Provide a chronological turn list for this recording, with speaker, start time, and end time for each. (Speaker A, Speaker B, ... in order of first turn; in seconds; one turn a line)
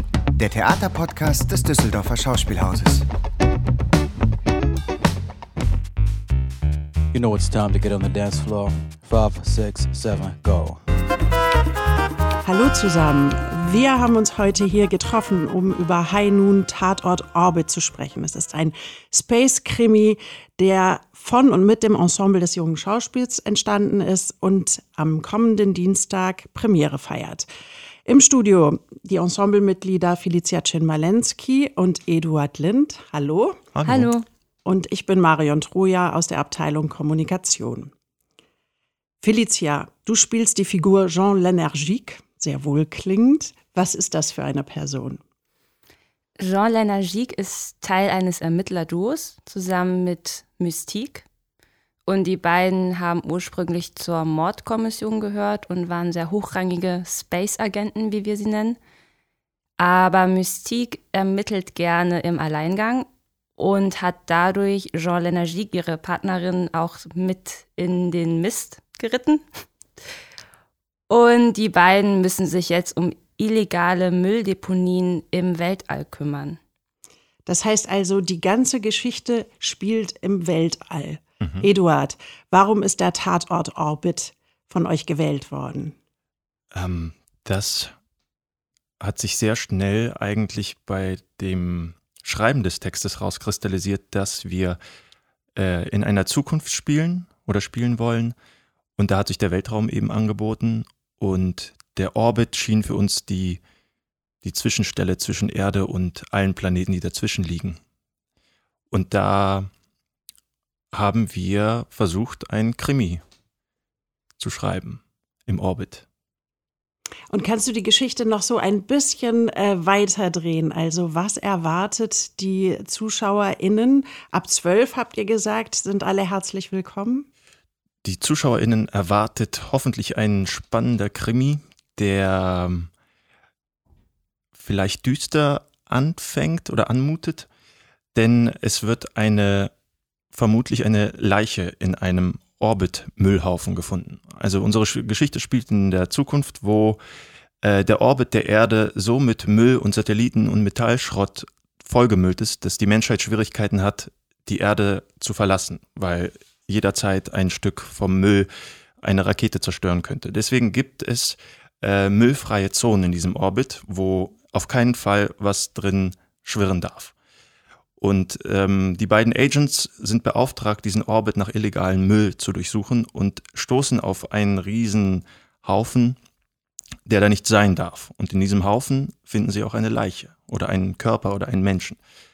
Speaker A: 0.3-3.1
Speaker B: 7.1-10.8
Speaker C: 12.4-27.5
Speaker C: 28.1-33.6
Speaker D: 33.8-34.1
Speaker E: 33.9-34.3
Speaker C: 34.6-37.9
Speaker C: 39.2-45.2
Speaker E: 46.4-51.3
Speaker E: 52.1-58.8
Speaker E: 59.8-69.4
Speaker E: 71.1-76.6
Speaker C: 77.5-86.0
Speaker D: 81.4-81.7
Speaker D: 86.7-87.9
Speaker D: 89.0-94.8
Speaker D: 95.6-98.3
Speaker D: 99.0-103.6
Speaker D: 104.4-107.8
Speaker D: 108.9-109.7
Speaker D: 110.9-113.2
Speaker D: 114.4-116.1
Speaker C: 117.3-127.3
Speaker D: 128.0-132.9
Speaker D: 134.6-137.5
Speaker D: 138.1-139.7
Speaker D: 140.3-147.0
Speaker D: 147.6-158.5
Speaker D: 159.0-167.1
Speaker D: 168.0-176.2
Speaker D: 177.1-182.0